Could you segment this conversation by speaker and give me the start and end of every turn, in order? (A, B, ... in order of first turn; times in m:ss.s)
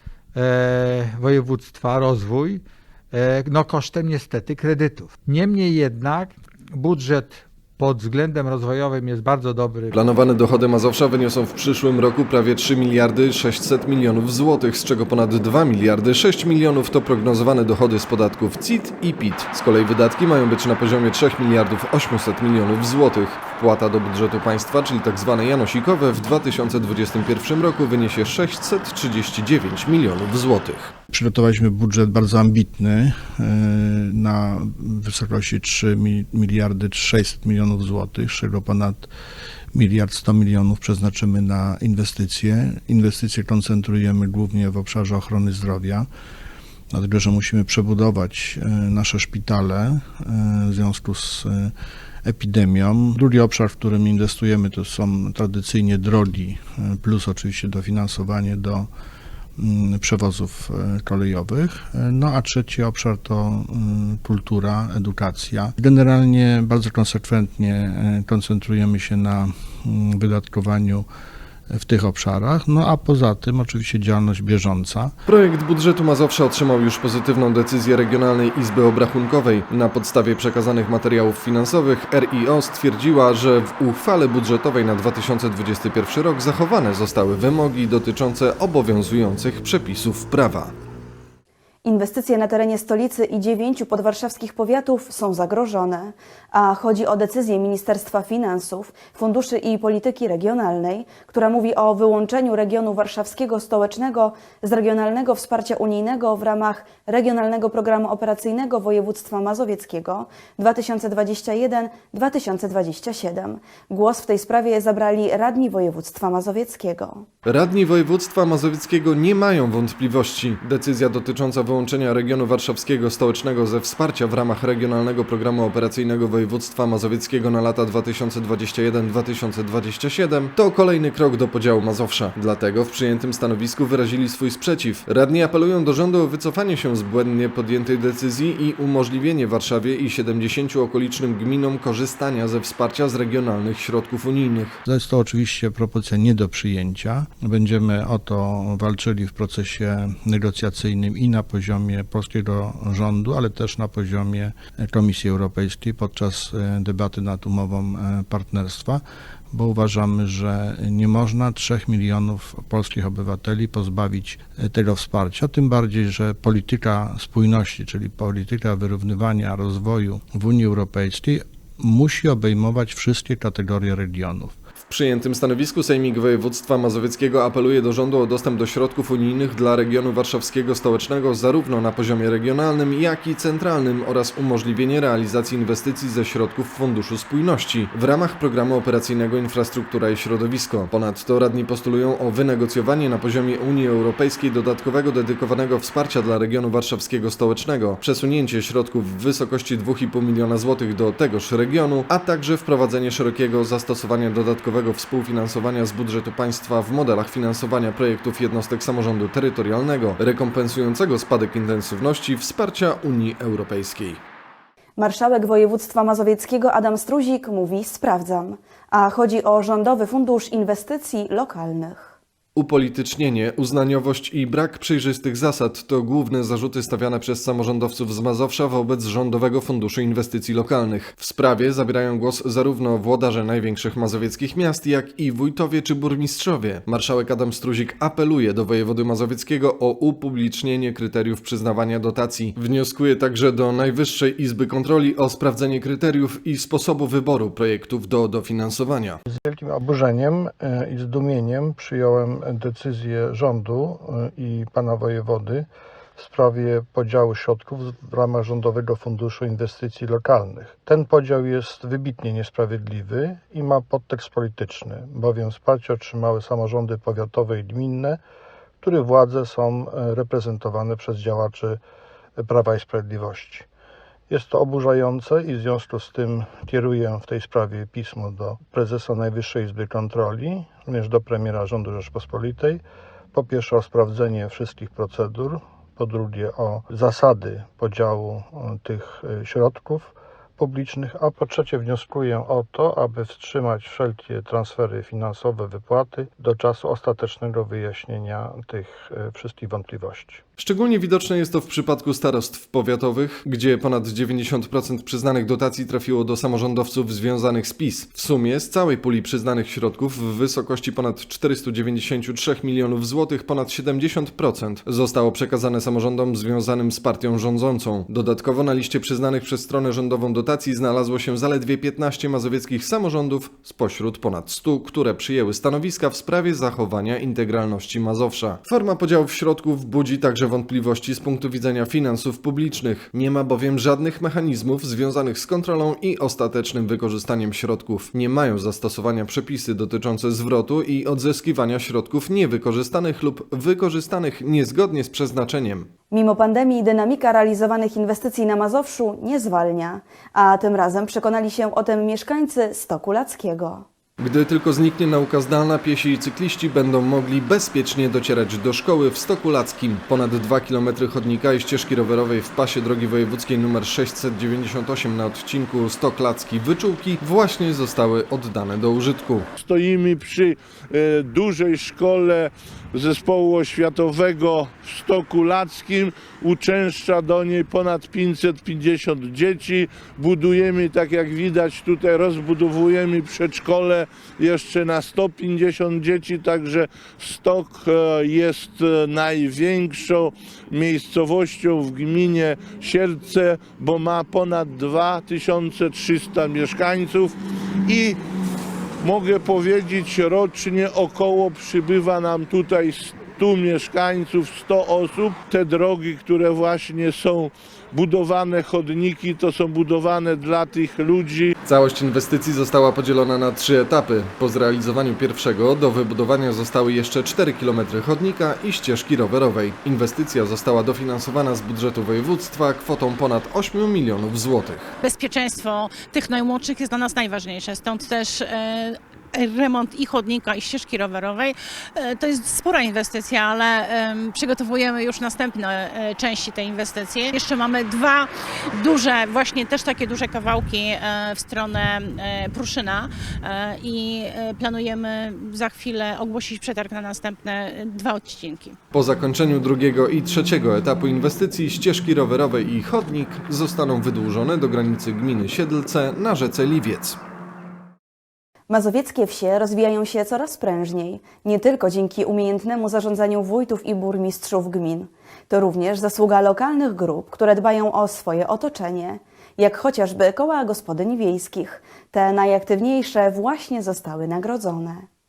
0:00.3-0:10.0 A
0:09.9-0:30.9 B
0:31.1-0:39.1 C
0:39.7-0:46.1 C
0:46.9-0:51.7 C
0:52.2-0:58.9 C
0:59.6-1:11.1 C
1:11.7-1:15.1 C
1:15.3-1:30.7 B
1:31.8-1:57.3 D
1:57.4-2:24.8 B
2:24.8-2:54.6 C
2:54.8-3:34.2 B
3:35.0-3:42.2 D
3:42.5-4:09.2 B
4:09.3-4:28.2 C
4:28.8-4:31.8 C
4:32.4-4:33.7 C
4:34.3-4:42.8 C
4:43.3-5:00.4 C
5:00.6-5:45.9 B
5:46.1-5:53.8 D
5:54.2-6:09.5 B
6:09.6-6:38.2 E
6:39.0-6:51.5 E
6:51.6-7:04.9 B
7:05.0-7:28.8 F
7:28.9-7:37.2 B
7:38.7-7:55.0 D